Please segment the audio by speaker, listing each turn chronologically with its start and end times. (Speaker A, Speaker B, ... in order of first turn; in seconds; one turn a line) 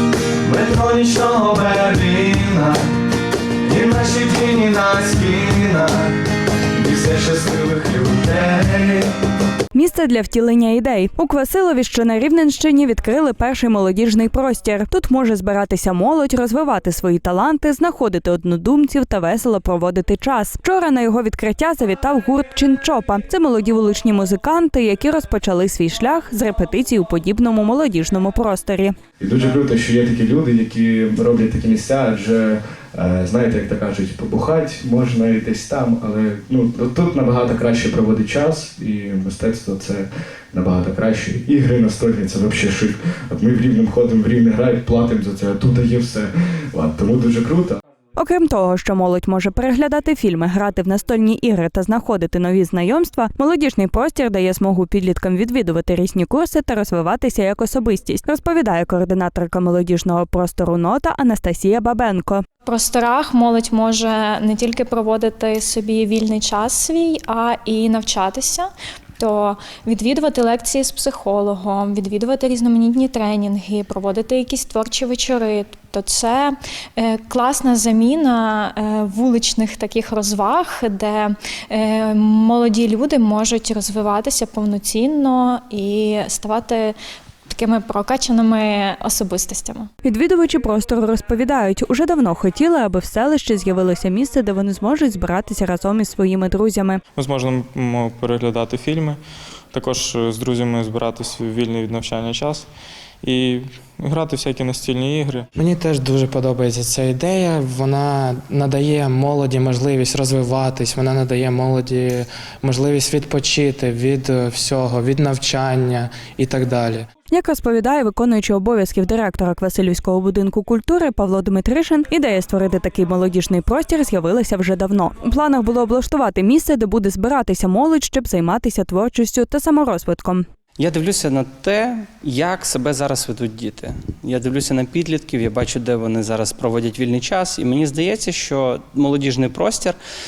Speaker A: 0.4-2.8
Speaker A: 3.6-6.2
Speaker A: 6.7-9.1
Speaker B: 9.7-28.9
Speaker A: 29.2-47.8
Speaker B: 48.1-62.4
Speaker C: 62.6-87.0
Speaker C: 87.5-89.9
Speaker B: 90.0-97.0
Speaker D: 97.2-99.2
Speaker D: 99.7-102.7
Speaker D: 103.2-105.4
Speaker E: 105.5-117.1
Speaker B: 117.3-130.4
Speaker F: 130.8-140.0